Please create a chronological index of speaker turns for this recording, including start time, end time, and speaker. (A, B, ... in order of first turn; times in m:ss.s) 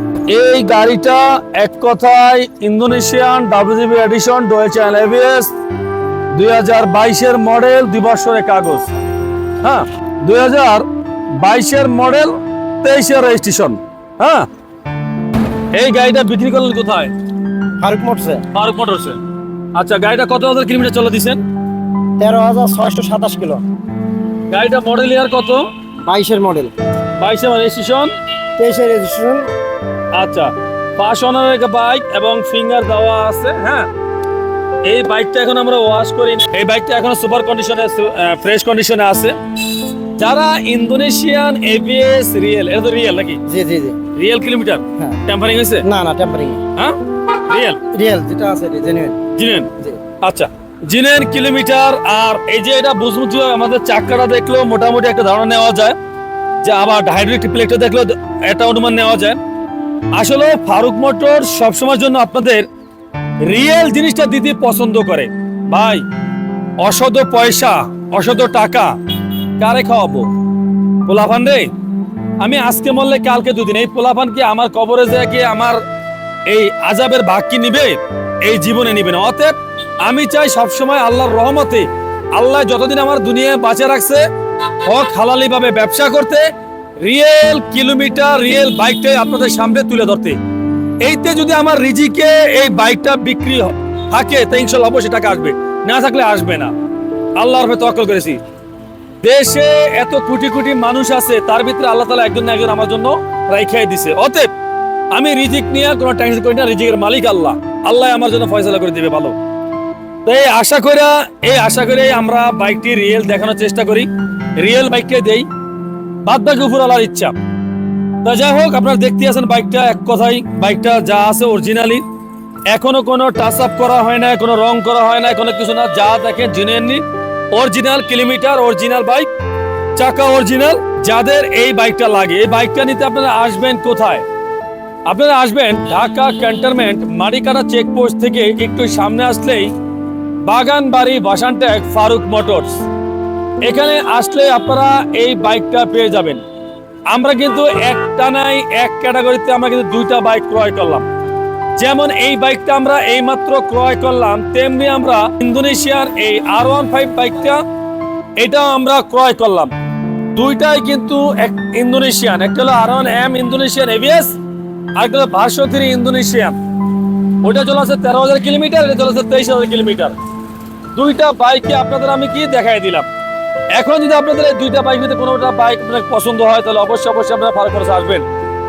0:00.3-0:05.5 A
0:06.3-0:08.9 A
0:09.6-0:14.5 A
0:15.7-0:17.1 A
0:17.8-0:18.4 B
0:18.5-0:19.2 A
0:19.7-0:21.4 A
0:22.2-0:23.6 B
0:24.5-0:25.6 A
0:26.0-0:26.7 B
0:27.2-0:28.1 A
0:28.6-0:29.5 B
0:30.1-0:33.9 A
0:34.8-0:39.4 A
0:40.1-0:43.4 A
0:43.5-0:44.0 B
0:44.1-0:45.8 A
0:45.8-0:46.6 B
0:46.7-0:47.8 A
0:47.9-0:49.2 B
0:49.3-0:56.0 A
0:56.6-0:59.4 A
1:00.1-1:02.7 A
1:03.4-1:06.0 A
1:06.8-1:08.9 A
1:09.6-1:10.3 A
1:11.0-1:11.7 A
1:12.4-1:15.8 A
1:16.5-1:24.2 A
1:24.8-1:26.4 A
1:27.0-1:30.4 A
1:31.0-1:36.7 A
1:37.4-1:38.4 A
1:39.2-1:44.5 A
1:45.1-1:49.4 A
1:50.2-1:55.5 A
1:56.2-1:57.3 A
1:58.2-2:02.0 A
2:02.7-2:09.3 A
2:09.9-2:14.2 A
2:15.0-2:19.7 A
2:20.4-2:22.8 A
2:23.6-2:26.4 A
2:27.1-2:31.0 A
2:31.8-2:37.6 A
2:38.4-2:39.7 A
2:40.3-2:44.3 A
2:45.0-2:46.6 A
2:47.4-2:50.1 A
2:50.9-2:53.1 A
2:53.7-2:58.2 A